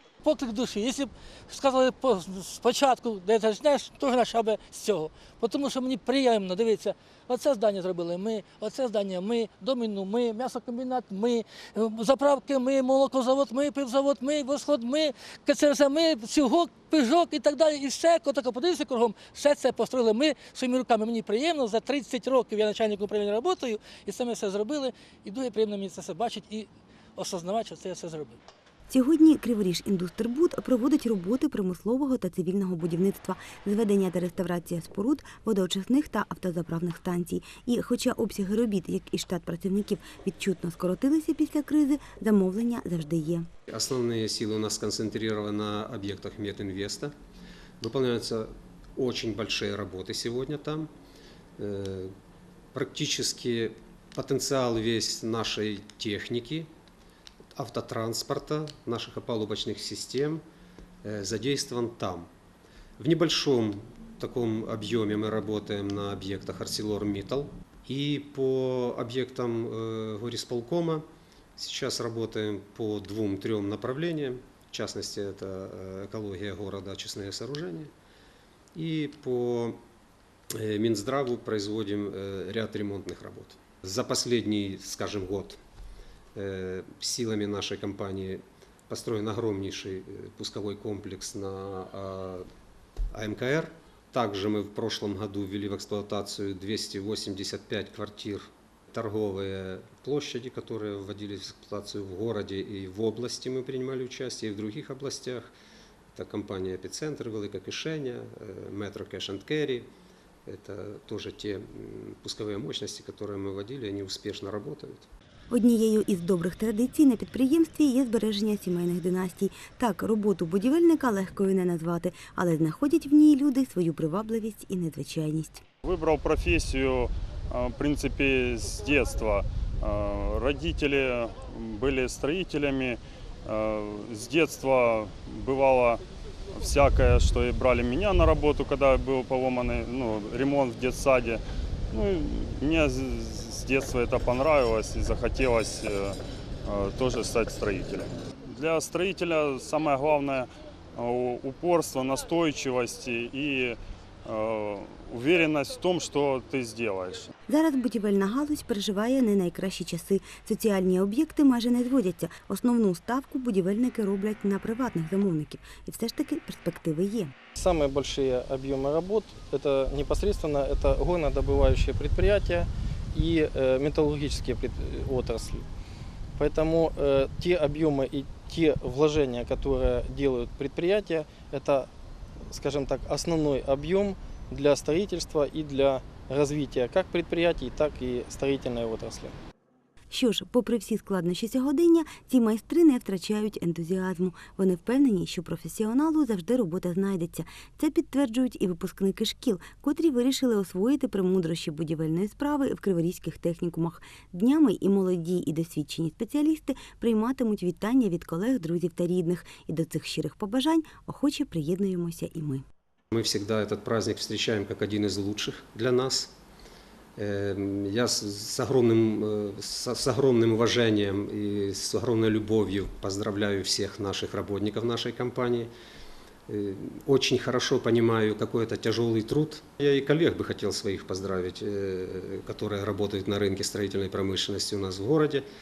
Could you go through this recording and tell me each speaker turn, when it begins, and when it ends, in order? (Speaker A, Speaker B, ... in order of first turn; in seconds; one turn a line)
Speaker A: 0.2-28.4
Speaker B: 28.9-43.5
Speaker C: 43.7-47.1
Speaker C: 47.8-50.9
Speaker C: 51.6-52.1
Speaker C: 52.7-56.7
Speaker C: 57.5-60.4
Speaker C: 61.0-62.3
Speaker C: 63.0-71.0
Speaker C: 71.6-77.9
Speaker C: 78.7-79.8
Speaker C: 80.5-85.6
Speaker C: 86.3-92.5
Speaker C: 93.1-105.5
Speaker C: 106.1-109.9
Speaker C: 110.5-115.1
Speaker B: 115.5-125.6
Speaker D: 125.8-136.0
Speaker D: 136.5-157.3
Speaker B: 157.5-167.3
Speaker E: 167.6-175.7
Speaker E: 176.4-181.9
Speaker E: 182.5-189.3
Speaker B: 190.1-212.6
Speaker C: 213.1-216.3
Speaker C: 217.2-225.7
Speaker C: 226.5-235.4